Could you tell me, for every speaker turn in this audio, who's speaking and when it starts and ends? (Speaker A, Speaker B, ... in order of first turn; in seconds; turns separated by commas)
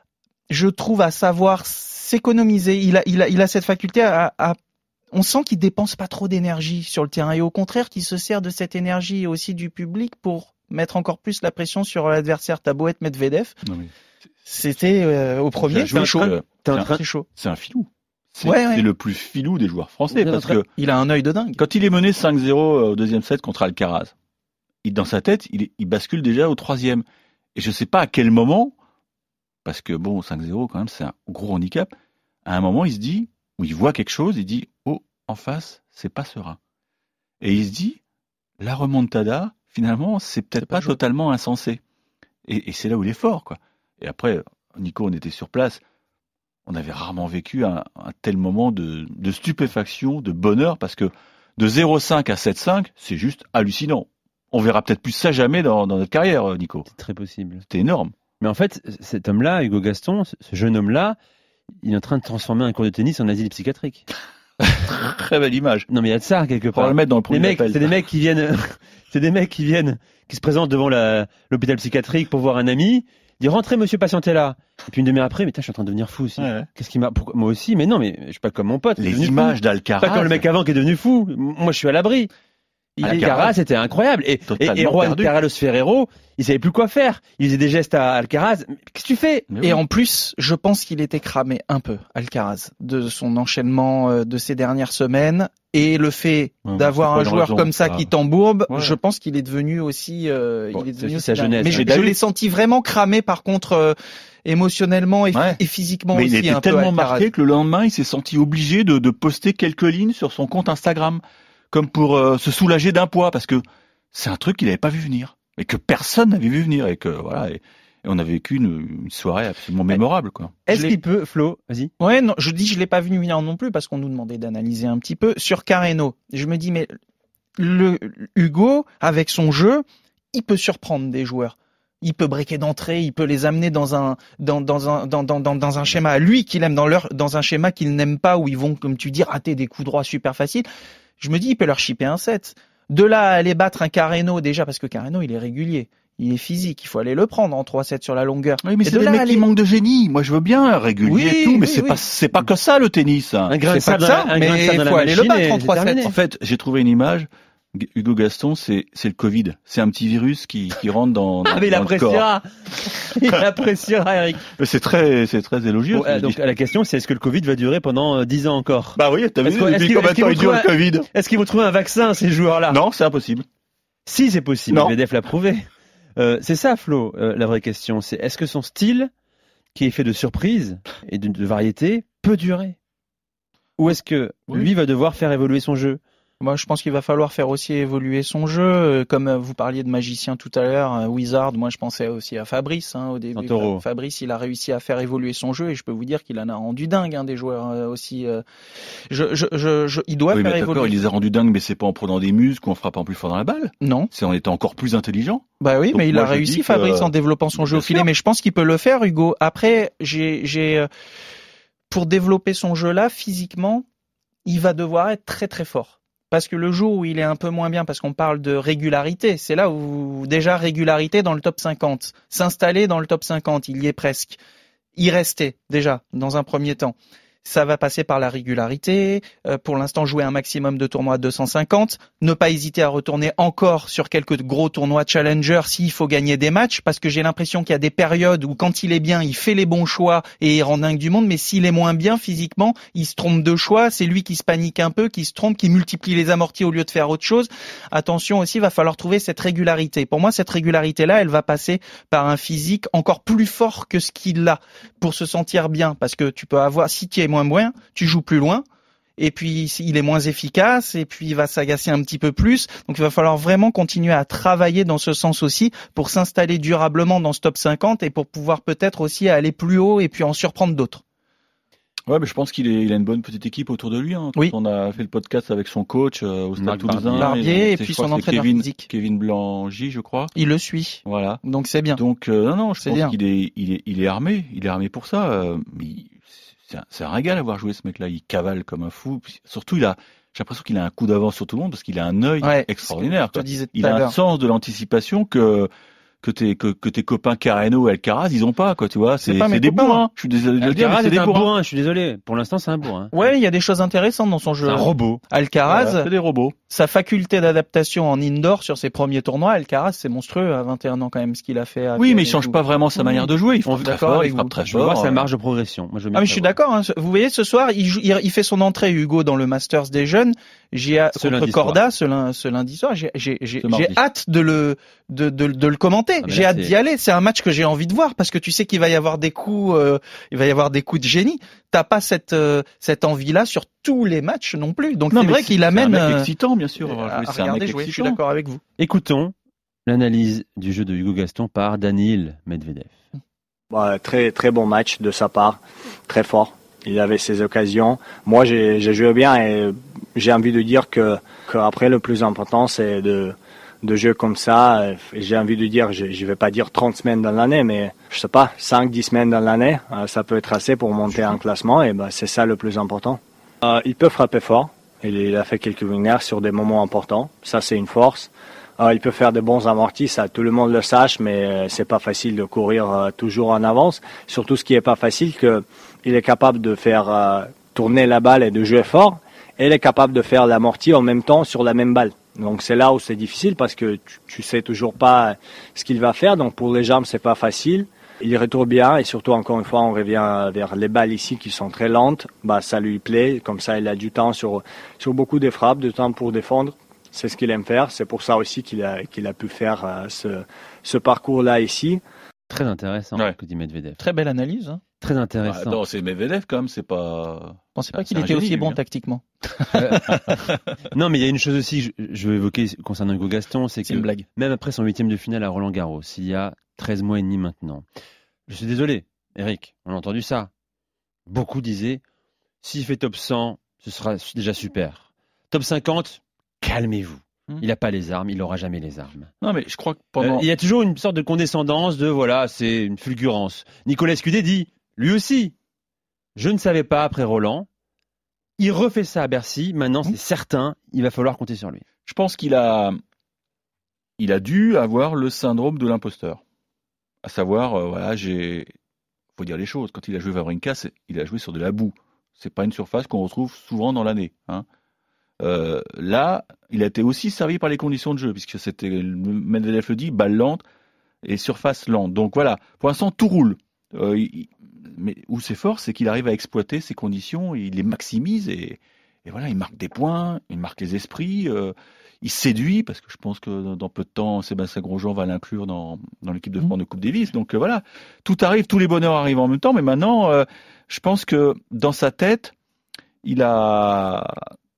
Speaker A: 0.5-4.6, Speaker A: 5.1-13.6, Speaker B: 13.6-13.9, Speaker A: 14.4-17.2, Speaker B: 15.6-20.7, Speaker C: 15.9-17.0, Speaker A: 18.4-18.9, Speaker A: 20.1-21.6, Speaker B: 21.6-24.1, Speaker B: 24.8-28.7, Speaker B: 29.6-31.9, Speaker B: 32.4-36.6, Speaker B: 37.4-38.0, Speaker B: 38.6-41.8, Speaker A: 40.6-40.9, Speaker B: 42.5-45.8, Speaker B: 46.6-56.9, Speaker C: 56.9-57.6, Speaker B: 57.6-58.1, Speaker C: 58.4-61.2, Speaker C: 61.8-64.0, Speaker B: 64.7-65.9, Speaker C: 65.9-82.3, Speaker B: 66.7-67.9, Speaker B: 76.4-76.7, Speaker B: 79.0-80.4, Speaker A: 83.0-83.4, Speaker C: 83.0-89.5, Speaker B: 83.0-83.5, Speaker B: 84.5-85.3, Speaker B: 89.5-89.8, Speaker A: 89.6-107.3, Speaker B: 96.7-98.1, Speaker B: 98.7-99.0, Speaker C: 100.8-101.9, Speaker B: 101.6-102.2, Speaker B: 105.3-105.6, Speaker B: 106.1-120.5, Speaker C: 120.7-121.9, Speaker A: 120.7-121.0, Speaker A: 122.0-126.9, Speaker A: 127.6-140.7, Speaker A: 141.2-149.4, Speaker B: 148.6-153.5, Speaker A: 151.0-152.0, Speaker C: 153.5-156.1, Speaker A: 153.7-156.0, Speaker B: 156.0-162.2, Speaker C: 161.5-164.4, Speaker B: 164.6-166.4, Speaker C: 165.9-172.8, Speaker B: 168.9-171.1, Speaker B: 172.7-173.4, Speaker C: 174.1-175.6, Speaker B: 174.7-174.9, Speaker C: 176.2-179.1, Speaker C: 179.7-182.8, Speaker C: 183.8-186.0, Speaker A: 186.4-198.4, Speaker C: 193.3-193.8, Speaker A: 199.1-201.0, Speaker B: 200.3-208.1, Speaker A: 203.8-204.1, Speaker A: 205.6-210.9, Speaker A: 211.9-213.8, Speaker A: 214.4-224.4, Speaker A: 225.0-258.6, Speaker A: 259.2-271.0, Speaker B: 272.1-280.3, Speaker C: 276.6-277.3, Speaker A: 277.1-278.9, Speaker A: 280.3-282.0, Speaker B: 281.1-281.4, Speaker B: 281.9-295.7, Speaker A: 282.8-283.1, Speaker A: 292.4-294.1, Speaker B: 296.2-301.5, Speaker A: 299.2-300.1, Speaker C: 300.6-303.1, Speaker A: 303.1-306.1, Speaker C: 304.6-305.2, Speaker B: 305.6-306.6, Speaker A: 306.7-314.5, Speaker B: 312.0-315.3, Speaker C: 313.6-313.9, Speaker C: 314.6-316.5, Speaker A: 316.1-336.3, Speaker C: 321.1-321.8, Speaker B: 323.6-324.0, Speaker C: 326.2-326.7, Speaker B: 335.1-338.2, Speaker A: 336.8-338.6, Speaker C: 338.8-339.3, Speaker C: 339.9-342.9, Speaker D: 343.7-402.0, Speaker C: 402.5-404.0, Speaker A: 404.0-404.8, Speaker C: 405.0-405.8, Speaker B: 405.4-408.8, Speaker A: 407.8-410.1, Speaker C: 409.7-410.2, Speaker B: 410.1-410.4, Speaker C: 410.9-417.8, Speaker A: 413.9-414.2, Speaker C: 418.5-420.5, Speaker C: 421.3-422.0, Speaker C: 422.6-429.3, Speaker B: 429.4-430.4, Speaker C: 430.2-435.5, Speaker C: 436.4-437.7, Speaker C: 438.6-441.8, Speaker B: 442.1-443.0, Speaker B: 444.2-446.4, Speaker B: 447.2-448.7, Speaker B: 449.4-454.6, Speaker B: 455.4-460.6, Speaker B: 461.2-482.5, Speaker B: 483.2-484.5